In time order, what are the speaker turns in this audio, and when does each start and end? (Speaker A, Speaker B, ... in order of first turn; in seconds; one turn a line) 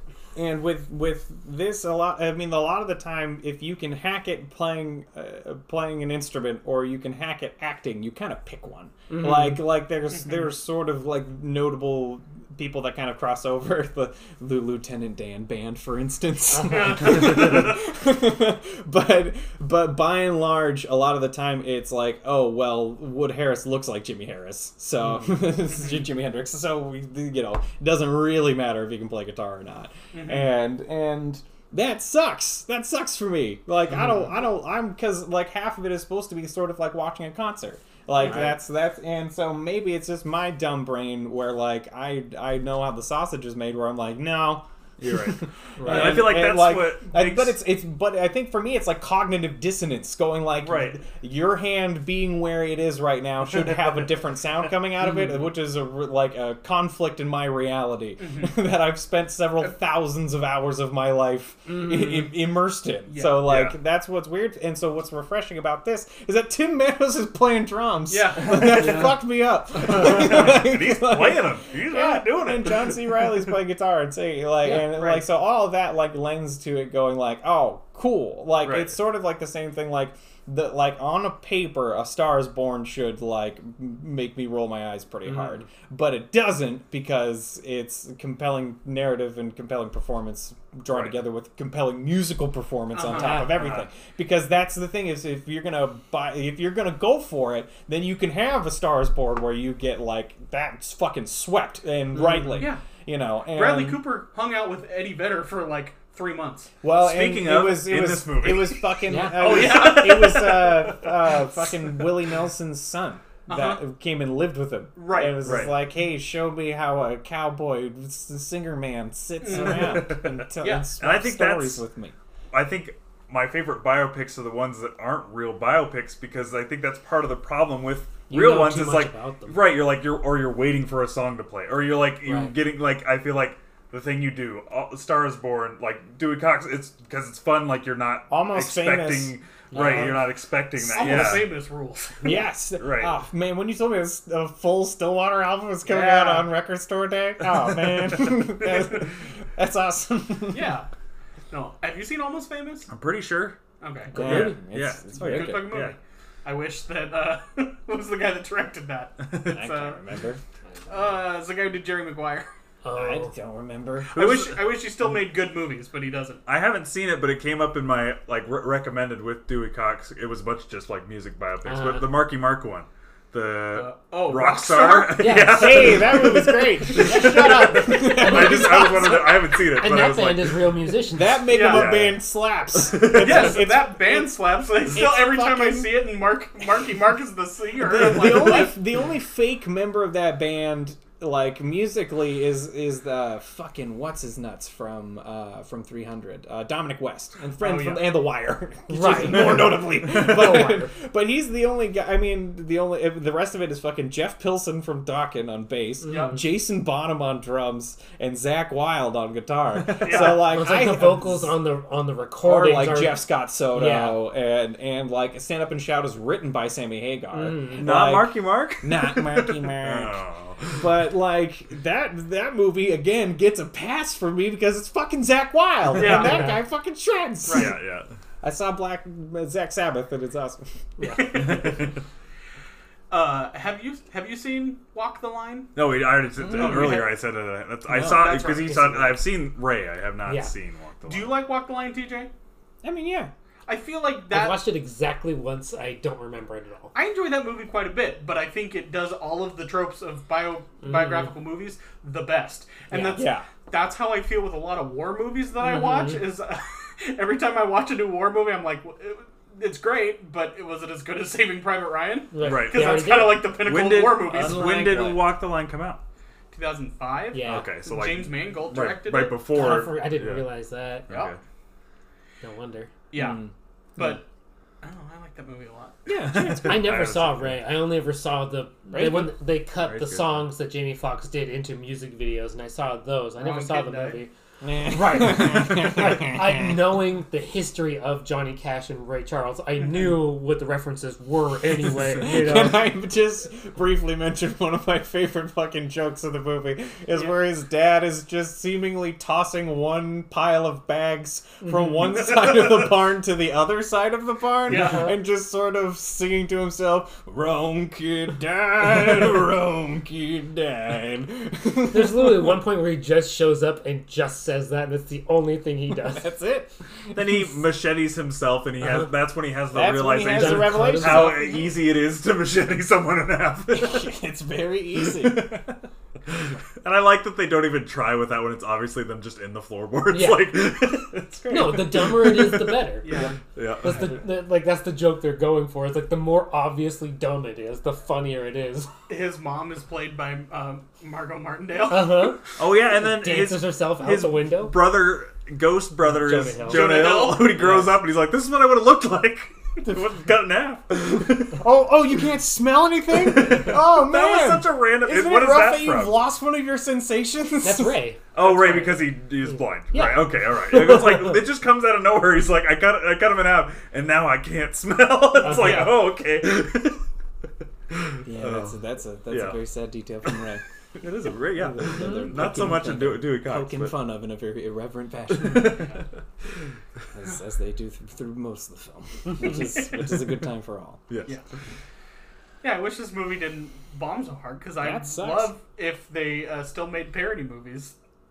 Speaker A: 0.3-104.0
Speaker B: 9.1-9.7
Speaker C: 16.6-17.8
Speaker B: 16.7-16.9
Speaker C: 30.1-30.5
Speaker B: 38.2-38.5
Speaker D: 45.0-47.6
Speaker B: 45.8-46.3
Speaker D: 50.6-51.0
Speaker B: 55.0-55.3
Speaker C: 58.2-58.6
Speaker C: 63.1-63.5
Speaker D: 63.4-63.8
Speaker C: 68.1-69.1
Speaker B: 68.7-69.1
Speaker D: 69.8-73.0
Speaker C: 74.8-75.2
Speaker D: 78.6-79.0
Speaker B: 85.3-85.5
Speaker D: 90.9-91.1
Speaker C: 92.9-93.4
Speaker B: 93.0-93.8
Speaker D: 93.5-93.9
Speaker C: 102.2-102.8
Speaker C: 103.5-106.7
Speaker A: 106.8-122.1
Speaker D: 106.9-108.8
Speaker B: 109.0-109.7
Speaker C: 109.3-111.4
Speaker C: 113.5-113.8
Speaker C: 115.0-115.7
Speaker D: 115.4-115.8
Speaker C: 119.4-120.9
Speaker D: 119.5-120.5
Speaker D: 121.0-121.8
Speaker D: 122.5-141.5
Speaker B: 128.3-129.6
Speaker A: 138.3-140.2
Speaker B: 139.7-140.1
Speaker C: 139.8-140.1
Speaker A: 140.8-141.5
Speaker C: 140.8-142.2
Speaker A: 142.2-150.8
Speaker D: 142.8-143.1
Speaker C: 145.8-146.5
Speaker D: 147.4-148.3
Speaker C: 150.5-150.9
Speaker C: 151.5-152.9
Speaker D: 152.9-153.6
Speaker C: 153.8-154.5
Speaker A: 154.1-155.8
Speaker B: 154.2-154.6
Speaker D: 154.2-155.9
Speaker C: 155.1-160.0
Speaker D: 159.2-159.6
Speaker A: 159.4-160.4
Speaker C: 160.9-162.5
Speaker B: 162.8-163.3
Speaker A: 162.9-164.2
Speaker C: 164.1-166.4
Speaker D: 164.1-164.5
Speaker D: 166.4-180.7
Speaker B: 171.6-172.2
Speaker C: 173.7-175.9
Speaker B: 175.2-176.0
Speaker A: 175.4-179.2
Speaker B: 177.1-181.5
Speaker C: 177.1-177.7
Speaker A: 181.1-184.3
Speaker C: 181.5-181.9
Speaker D: 181.7-182.2
Speaker D: 182.8-183.6
Speaker C: 183.1-188.8
Speaker A: 184.8-185.9
Speaker A: 187.8-211.5
Speaker C: 197.6-198.2
Speaker B: 198.9-200.9
Speaker B: 206.1-206.4
Speaker C: 206.1-206.3
Speaker D: 209.9-210.2
Speaker C: 210.0-210.5
Speaker B: 210.2-214.2
Speaker A: 212.4-220.2
Speaker B: 217.3-217.9
Speaker D: 217.8-220.8
Speaker A: 220.7-227.7
Speaker C: 225.9-226.5
Speaker B: 226.0-226.6
Speaker C: 227.5-227.8
Speaker D: 227.5-228.1
Speaker A: 228.4-230.6
Speaker B: 231.0-231.5
Speaker C: 231.0-231.9
Speaker D: 231.3-232.0
Speaker C: 233.1-235.7
Speaker D: 235.7-241.4
Speaker C: 236.5-237.2
Speaker B: 236.8-237.0
Speaker A: 237.9-238.6
Speaker C: 237.9-238.8
Speaker B: 240.2-240.5
Speaker C: 241.1-242.3
Speaker A: 242.8-243.3
Speaker C: 243.7-244.6
Speaker B: 244.3-246.9
Speaker C: 246.9-265.0
Speaker B: 250.8-251.3
Speaker B: 252.9-253.2
Speaker A: 253.0-253.5
Speaker B: 255.6-256.2
Speaker B: 262.3-263.5
Speaker D: 262.4-263.1
Speaker D: 263.6-266.0
Speaker A: 264.3-265.2
Speaker C: 266.5-269.4
Speaker B: 267.3-267.7
Speaker D: 267.4-270.4
Speaker B: 269.5-271.1
Speaker D: 271.1-271.4
Speaker C: 271.1-271.4
Speaker B: 272.4-272.9
Speaker C: 273.1-273.4
Speaker A: 273.1-274.2
Speaker C: 274.0-274.2
Speaker C: 274.8-276.0
Speaker A: 276.1-276.9
Speaker D: 276.2-277.6
Speaker B: 276.6-284.3
Speaker A: 278.9-279.3
Speaker D: 279.8-280.4
Speaker C: 283.4-284.2
Speaker A: 284.6-287.0
Speaker B: 284.8-292.9
Speaker A: 292.2-312.6
Speaker C: 304.7-305.1
Speaker B: 304.7-305.1
Speaker B: 311.9-316.3
Speaker A: 315.9-317.5
Speaker D: 317.1-324.1
Speaker A: 319.7-321.7
Speaker B: 320.2-321.5
Speaker A: 323.7-325.5
Speaker D: 325.0-332.9
Speaker B: 330.1-330.6
Speaker B: 331.5-338.9
Speaker C: 333.0-333.4
Speaker D: 333.5-334.1
Speaker C: 339.1-342.4
Speaker B: 341.9-342.4
Speaker D: 342.6-351.6
Speaker B: 342.9-344.8
Speaker B: 346.0-347.0
Speaker C: 346.6-347.8
Speaker B: 347.6-347.9
Speaker A: 351.6-358.0
Speaker D: 353.2-356.2
Speaker B: 357.6-361.2
Speaker D: 358.3-367.0
Speaker B: 365.4-365.9
Speaker C: 365.4-366.0
Speaker D: 367.9-368.8
Speaker A: 368.2-370.6
Speaker D: 369.3-369.6
Speaker D: 371.0-373.9
Speaker A: 371.5-375.9
Speaker B: 371.8-372.8
Speaker D: 375.4-376.0
Speaker A: 377.1-381.0
Speaker D: 381.1-381.3
Speaker C: 382.6-387.9
Speaker A: 384.8-385.5